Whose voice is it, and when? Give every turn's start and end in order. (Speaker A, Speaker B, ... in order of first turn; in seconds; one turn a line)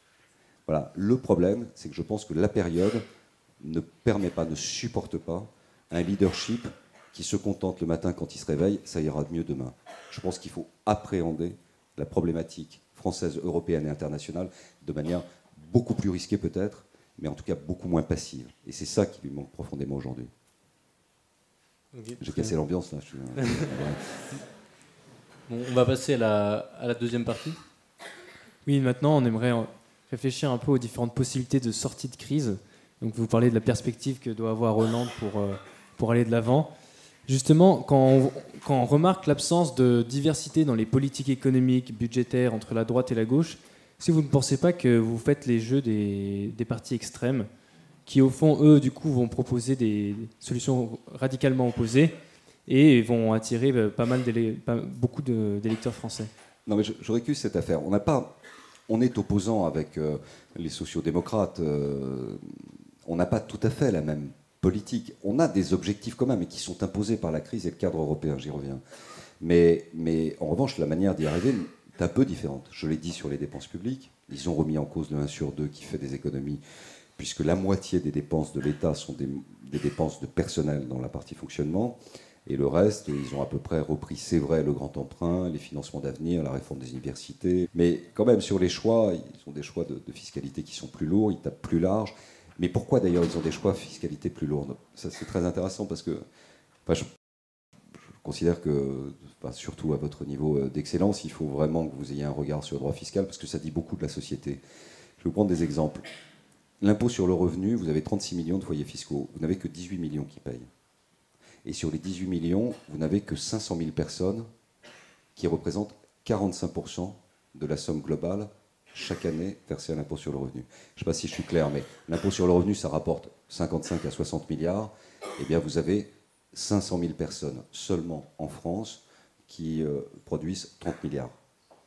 Speaker A: 0.7-3.0
Speaker A: 3.6-20.3
Speaker B: 21.9-22.5
Speaker A: 22.2-24.0
Speaker B: 25.5-27.6
Speaker C: 28.6-36.7
Speaker C: 37.3-47.5
Speaker C: 48.1-52.1
Speaker C: 52.7-56.3
Speaker A: 56.7-58.3
Speaker A: 58.9-62.5
Speaker A: 63.0-68.8
Speaker A: 69.4-76.6
Speaker A: 77.2-96.2
Speaker A: 98.2-104.6
Speaker A: 105.2-106.1
Speaker A: 106.8-110.7
Speaker A: 111.6-114.5
Speaker A: 115.4-131.4